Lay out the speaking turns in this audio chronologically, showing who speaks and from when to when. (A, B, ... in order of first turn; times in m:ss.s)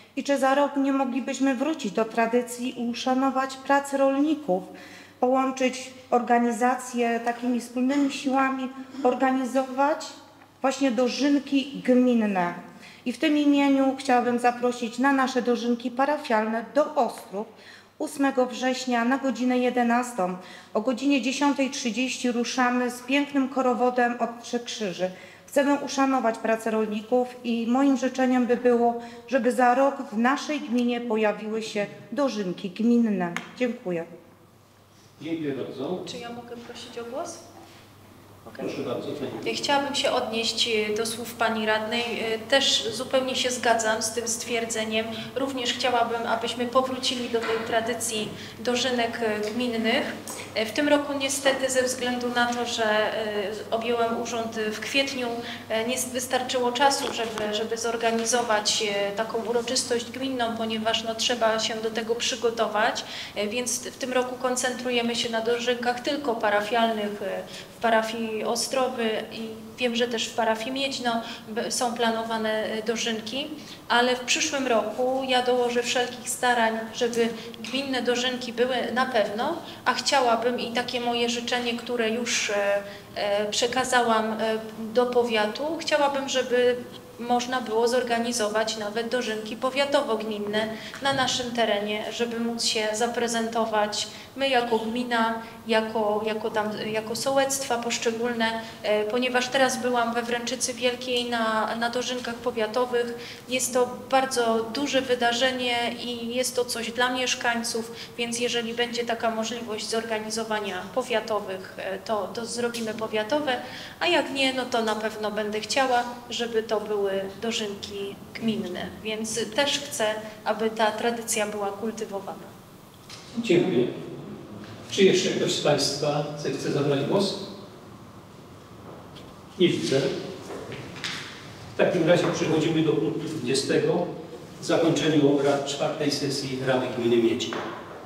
0:00.2-0:34.1 A
0:35.2-0:36.0 B
0:36.0-0:37.4 C
0:38.6-0:39.5 B
0:39.4-2:02.5 C
2:03.3-2:04.0 B
2:04.9-2:07.5 B
2:09.6-2:10.2 B
2:11.8-2:17.6 B